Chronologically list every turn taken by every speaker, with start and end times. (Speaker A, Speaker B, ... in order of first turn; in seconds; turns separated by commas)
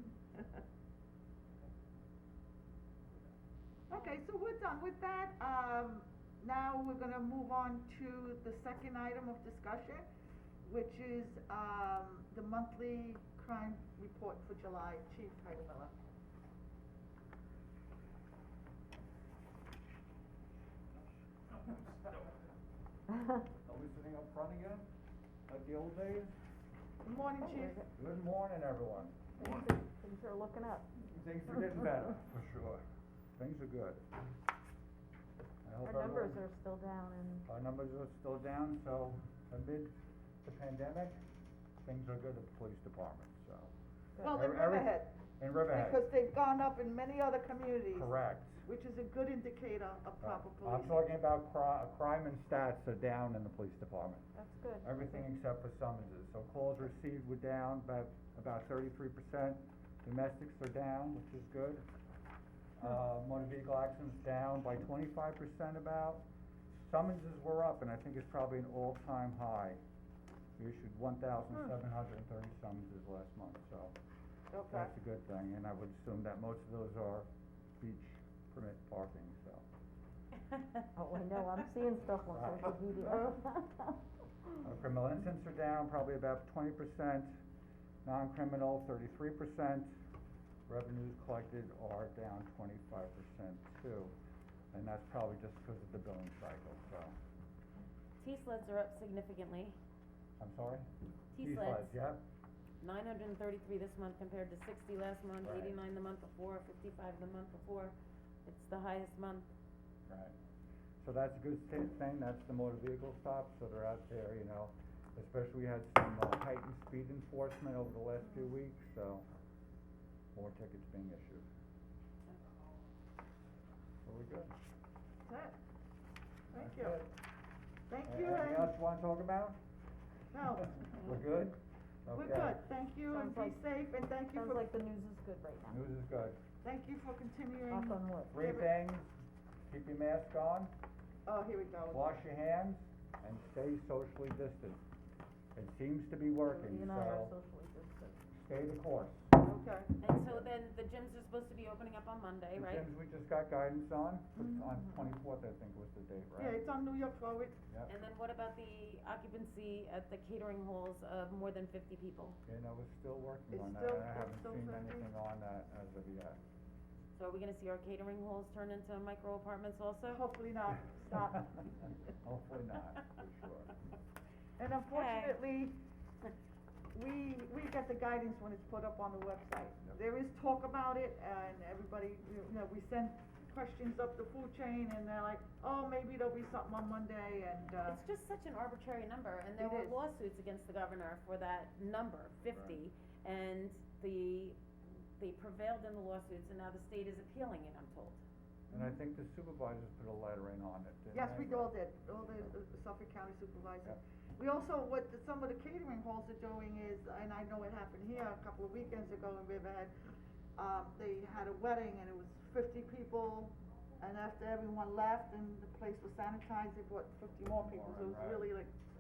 Speaker A: 3.9-10.1, Speaker A: 10.6-15.9, Speaker B: 21.6-22.0, Speaker B: 23.6-24.9, Speaker B: 25.5-26.3, Speaker A: 27.0-27.8, Speaker C: 27.4-27.9, Speaker B: 27.9-29.1, Speaker C: 29.4-30.9, Speaker B: 31.1-32.8, Speaker B: 33.4-34.0, Speaker B: 35.6-36.4, Speaker C: 35.8-37.5, Speaker B: 37.5-41.2, Speaker B: 41.8-43.7, Speaker A: 44.2-45.2, Speaker B: 44.3-46.0, Speaker A: 45.7-48.1, Speaker B: 47.9-48.6, Speaker A: 48.6-51.0, Speaker B: 50.2-54.2, Speaker C: 54.4-55.3, Speaker B: 54.8-61.9, Speaker B: 62.8-66.2, Speaker B: 66.9-69.8, Speaker B: 70.6-74.0, Speaker A: 74.5-74.9, Speaker B: 74.7-77.3, Speaker B: 77.8-79.7, Speaker C: 81.0-84.0, Speaker B: 82.3-83.0, Speaker B: 84.6-87.3, Speaker B: 88.0-89.9, Speaker B: 90.7-94.2, Speaker B: 94.7-97.2, Speaker D: 98.2-99.8, Speaker B: 100.4-100.9, Speaker D: 101.3-102.0, Speaker B: 101.4-102.2, Speaker D: 102.8-108.0, Speaker B: 105.4-105.8, Speaker D: 108.5-109.5, Speaker B: 110.1-110.3, Speaker B: 111.0-119.2, Speaker B: 120.3-121.5, Speaker B: 124.0-124.5, Speaker A: 125.2-125.6, Speaker A: 126.5-127.0, Speaker B: 126.5-127.1, Speaker A: 127.9-128.8, Speaker B: 128.0-129.6, Speaker A: 130.3-131.0, Speaker B: 130.8-132.6, Speaker A: 132.1-134.7, Speaker C: 133.1-133.6, Speaker C: 134.3-135.8, Speaker B: 135.7-136.4, Speaker A: 136.6-138.7, Speaker C: 137.7-138.4, Speaker B: 138.3-139.1, Speaker B: 139.7-140.7, Speaker A: 141.3-142.1, Speaker B: 141.9-144.8, Speaker B: 145.6-147.3, Speaker C: 146.4-148.3, Speaker B: 148.3-149.3, Speaker A: 149.4-149.9, Speaker D: 150.0-152.9, Speaker B: 150.1-150.5, Speaker B: 152.6-156.6, Speaker A: 154.4-154.7, Speaker A: 156.4-157.6, Speaker D: 157.9-162.4, Speaker B: 162.5-166.4, Speaker A: 163.5-165.1, Speaker D: 167.2-170.2, Speaker A: 170.1-171.6, Speaker B: 172.2-173.7, Speaker A: 174.6-175.8, Speaker D: 174.9-175.4, Speaker A: 176.9-188.0, Speaker D: 187.8-194.6, Speaker A: 189.6-190.0, Speaker D: 195.2-198.2, Speaker A: 198.7-199.0, Speaker B: 198.7-201.7, Speaker A: 201.1-209.9, Speaker A: 210.6-218.7, Speaker B: 217.6-218.5